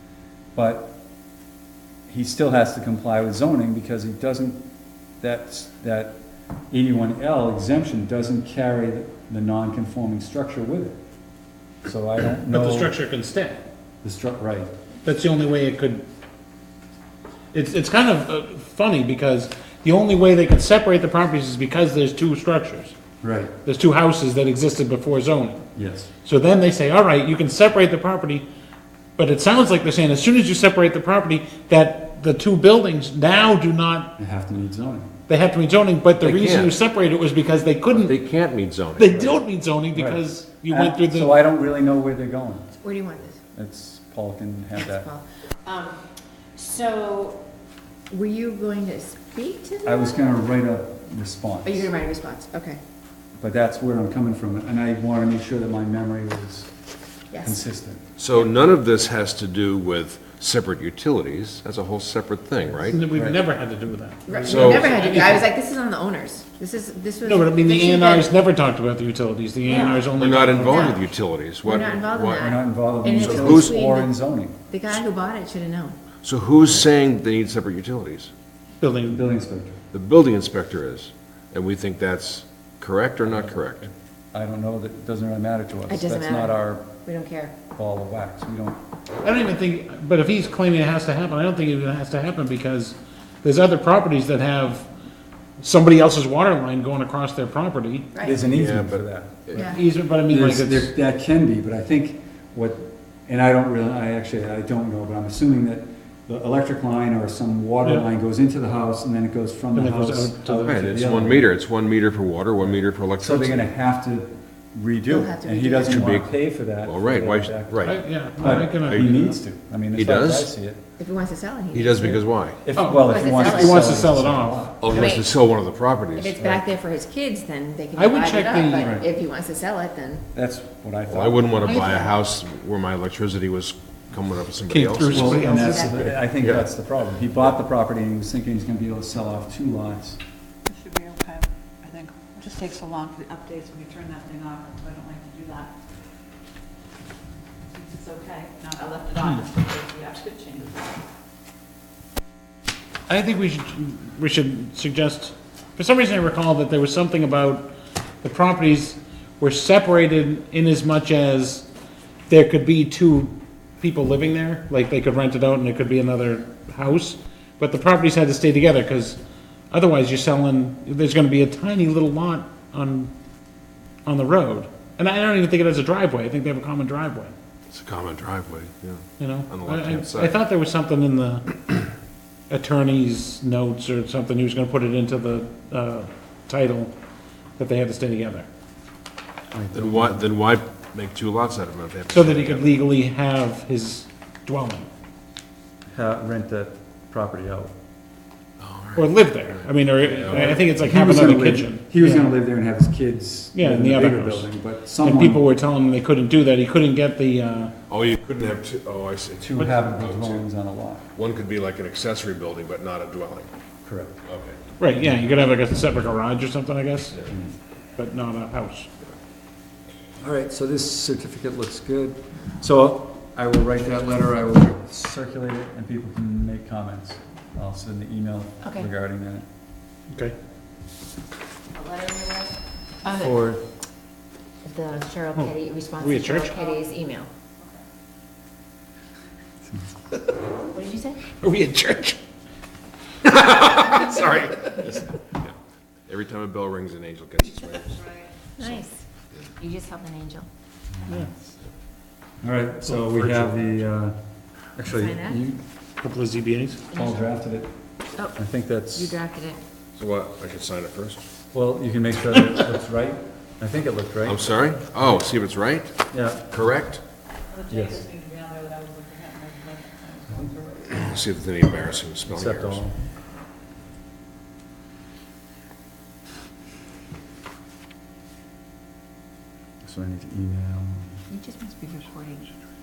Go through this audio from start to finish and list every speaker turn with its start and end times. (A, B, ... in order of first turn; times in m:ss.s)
0:00.5-0:01.0 A
0:02.1-0:04.6 A
0:05.2-0:11.0 A
0:11.8-0:12.9 A
0:12.5-0:13.6 B
0:14.0-0:14.7 A
0:15.0-0:16.0 B
0:17.5-0:23.0 B
0:23.2-0:23.5 A
0:23.6-0:25.6 B
0:25.8-0:26.1 A
0:26.2-0:28.4 B
0:29.2-0:34.2 B
0:34.2-0:35.1 A
0:35.3-0:38.2 B
0:36.2-0:36.8 C
0:37.9-0:39.4 C
0:39.0-0:41.4 B
0:39.9-0:42.8 A
0:42.8-0:43.4 D
0:43.5-0:45.1 A
0:44.8-0:46.0 D
0:46.6-0:47.4 D
0:48.1-0:50.2 D
0:49.8-0:51.9 A
0:51.6-0:52.8 D
0:53.4-0:56.7 A
0:57.3-0:57.6 D
0:57.4-0:58.4 A
0:58.2-1:03.0 C
1:02.9-1:05.4 B
1:03.1-1:03.4 A
1:04.3-1:08.3 D
1:04.4-1:04.9 C
1:07.2-1:11.0 B
1:09.6-1:11.0 D
1:10.1-1:13.8 C
1:11.6-1:14.2 D
1:12.4-1:14.6 A
1:14.7-1:16.0 D
1:16.2-1:18.3 C
1:18.8-1:19.2 B
1:19.1-1:19.8 A
1:19.9-1:23.8 C
1:23.3-1:27.0 A
1:25.9-1:27.6 D
1:27.7-1:28.8 A
1:29.2-1:34.9 B
1:35.6-1:38.1 B
1:38.2-1:39.8 A
1:38.5-1:39.8 C
1:39.6-1:40.9 B
1:40.3-1:51.5 A
1:49.7-1:50.8 B
1:50.6-1:53.7 C
1:53.2-2:00.8 A
1:55.1-1:56.2 D
1:55.8-1:58.0 C
1:57.8-1:59.3 B
1:58.8-1:59.2 C
1:59.9-2:00.5 C
2:01.0-2:02.2 D
2:01.7-2:02.6 C
2:02.1-2:05.1 A
2:02.8-2:04.7 B
2:02.9-2:04.0 D
2:04.8-2:06.4 C
2:04.9-2:05.3 D
2:06.2-2:10.2 D
2:06.4-2:06.6 A
2:07.9-2:09.0 B
2:08.8-2:09.1 A
2:10.3-2:12.0 A
2:11.1-2:15.4 C
2:11.6-2:12.1 D
2:14.7-2:16.1 B
2:15.1-2:20.2 A
2:15.2-2:16.0 D
2:16.4-2:16.7 C
2:22.0-2:25.7 E
2:27.7-2:30.8 E
2:33.1-2:37.7 B
2:38.2-2:41.7 B
2:42.3-2:49.2 B
2:49.7-2:53.1 B
2:54.0-2:57.3 B
2:57.7-3:00.3 C
2:59.2-3:01.8 B
3:02.5-3:06.9 B
3:07.6-3:08.5 B
3:09.5-3:10.2 A
3:09.7-3:12.7 C
3:12.1-3:14.9 B
3:15.9-3:17.7 A
3:18.6-3:20.6 C
3:19.0-3:22.3 B
3:20.3-3:25.4 A
3:23.5-3:24.5 B
3:25.0-3:27.7 B
3:27.9-3:30.4 C
3:29.4-3:31.1 A
3:31.2-3:33.5 C
3:33.8-3:34.2 A
3:34.2-3:34.6 C
3:34.8-3:37.2 B
3:37.3-3:37.5 A
3:38.0-3:38.9 B
3:40.2-3:49.5 A
3:48.6-3:48.9 D
3:51.7-3:53.3 D
3:53.2-3:53.6 A
3:54.6-3:57.3 D
3:55.3-3:56.6 B
4:00.7-4:01.2 D
4:01.4-4:02.2 B
4:03.2-4:05.5 C
4:03.7-4:04.5 B
4:06.1-4:08.1 C
4:08.6-4:09.0 D
4:09.6-4:10.5 D
4:12.4-4:14.2 A
4:12.8-4:13.6 B
4:14.8-4:15.6 A
4:14.8-4:15.4 D
4:16.0-4:16.8 B
4:16.9-4:17.3 D
4:16.9-4:17.7 A
4:18.3-4:19.2 A
4:18.9-4:19.6 D
4:20.0-4:21.2 C
4:21.5-4:24.4 A
4:24.2-4:26.0 C
4:26.1-4:26.4 A
4:26.5-4:27.0 C
4:27.6-4:30.9 E
4:27.7-4:28.1 A
4:30.9-4:32.8 C
4:32.3-4:33.0 A
4:39.8-4:41.2 A
4:41.3-4:42.5 D